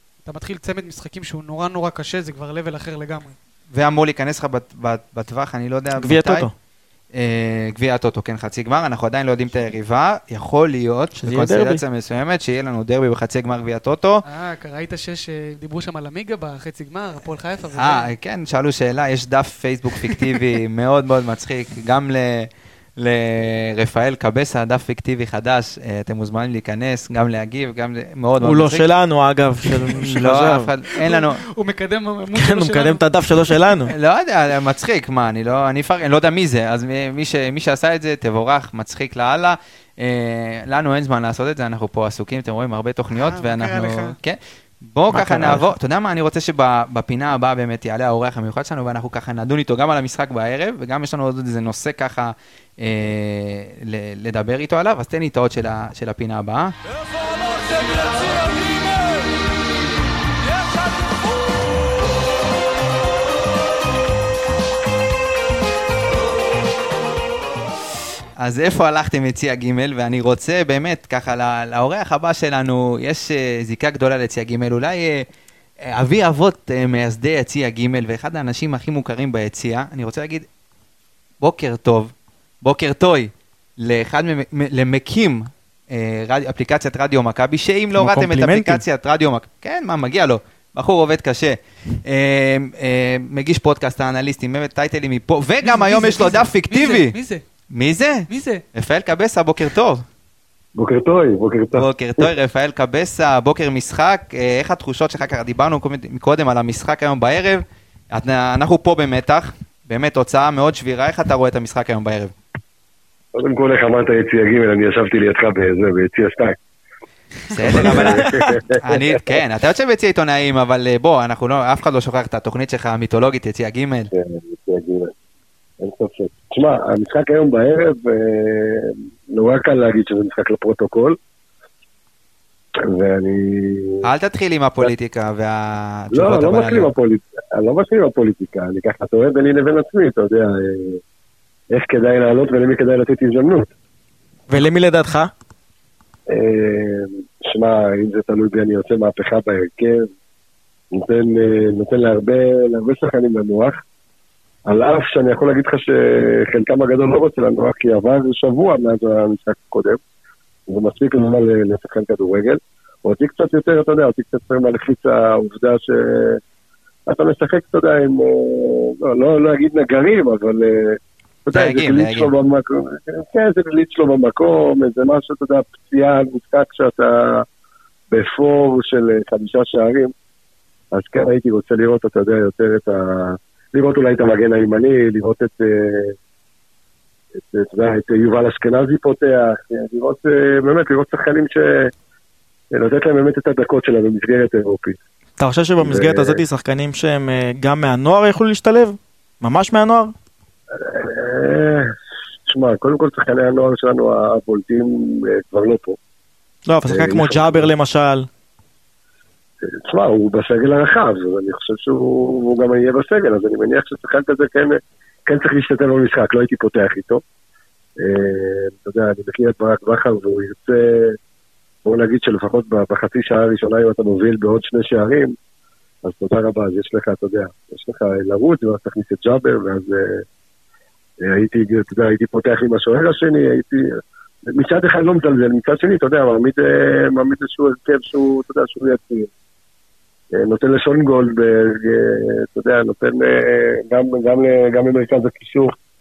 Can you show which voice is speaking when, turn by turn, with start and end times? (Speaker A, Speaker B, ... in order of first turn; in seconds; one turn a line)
Speaker A: 0.2-3.3
Speaker B: 3.7-6.5
Speaker C: 6.0-6.5
Speaker B: 7.1-14.2
Speaker C: 11.1-11.8
Speaker A: 14.2-18.1
Speaker B: 17.7-28.9
Speaker C: 28.4-30.7
Speaker B: 29.9-31.4
Speaker A: 30.9-33.5
Speaker C: 32.3-33.9
Speaker B: 33.9-56.8
Speaker A: 43.2-44.1
Speaker C: 45.1-45.7
Speaker B: 68.4-75.2
Speaker B: 75.8-80.5
Speaker B: 81.4-97.1
Speaker C: 87.9-88.8
Speaker A: 95.6-97.4
Speaker B: 97.7-100.0
Speaker A: 98.3-98.6
Speaker D: 100.8-102.3
Speaker B: 101.7-112.3
Speaker D: 113.3-116.6
Speaker B: 117.5-124.1
Speaker D: 117.7-119.4
Speaker C: 117.7-118.6
Speaker D: 124.1-125.1
Speaker D: 125.8-131.2
Speaker D: 132.8-134.1
Speaker B: 134.0-136.9
Speaker D: 136.1-141.0
Speaker D: 141.7-143.7
Speaker C: 144.5-145.3
Speaker D: 146.3-150.1
Speaker D: 150.9-153.8
Speaker D: 154.7-160.0
Speaker D: 160.7-166.4
Speaker D: 167.1-177.4
Speaker B: 171.5-172.3
Speaker D: 178.1-180.1
Speaker D: 180.9-186.2
Speaker D: 187.4-191.9
Speaker D: 192.7-195.0
Speaker C: 195.4-200.1
Speaker D: 195.8-196.4
Speaker D: 200.8-201.9
Speaker D: 202.5-206.0
Speaker C: 206.7-208.3
Speaker D: 206.9-207.7
Speaker D: 209.6-217.2
Speaker D: 218.0-221.2
Speaker D: 221.8-225.3
Speaker D: 226.0-230.2
Speaker D: 231.2-239.3
Speaker D: 240.3-245.7